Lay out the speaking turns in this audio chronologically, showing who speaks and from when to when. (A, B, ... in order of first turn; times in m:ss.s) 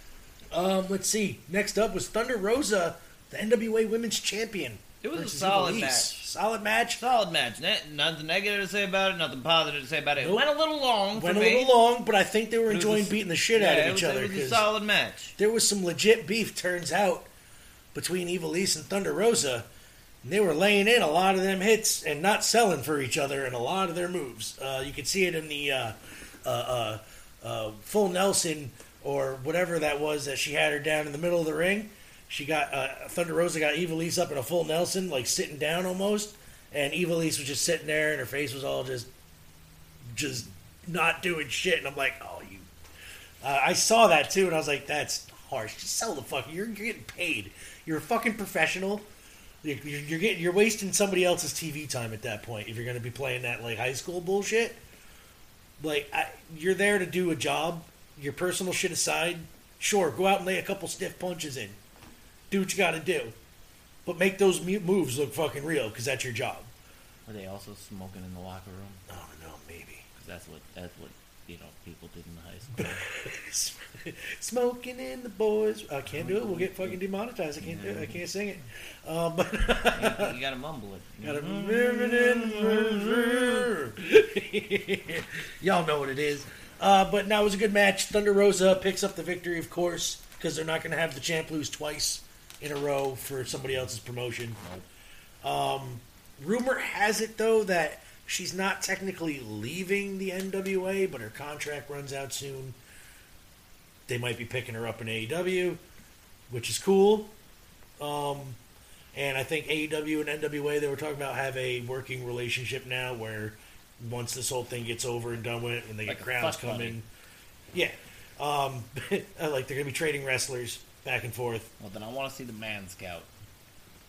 0:00.5-0:07.0 A
0:05.0-0:06.2 B
0:07.0-0:11.7 B
0:10.2-0:10.5 A
0:11.1-0:14.6 A
0:12.7-0:15.3 B
0:15.4-0:17.3 A
0:17.9-0:19.6 A
0:20.2-0:39.1 A
0:40.1-0:42.7 A
0:43.4-0:49.1 A
0:49.6-0:54.8 A
0:55.8-1:01.8 A
1:02.5-1:03.4 A
1:04.0-1:06.7 A
1:07.2-1:09.0 B
1:09.1-1:10.0 A
1:10.2-1:13.1 B
1:12.8-1:20.3 A
1:16.1-1:17.0 B
1:17.6-1:18.2 B
1:19.9-1:23.7 B
1:21.2-1:34.6 A
1:35.4-1:42.8 A
1:44.1-1:45.8 A
1:46.5-1:47.3 A
1:48.0-1:48.6 A
1:49.1-1:57.1 A
1:56.0-1:57.0 B
1:57.7-2:01.7 A
2:01.8-2:03.3 B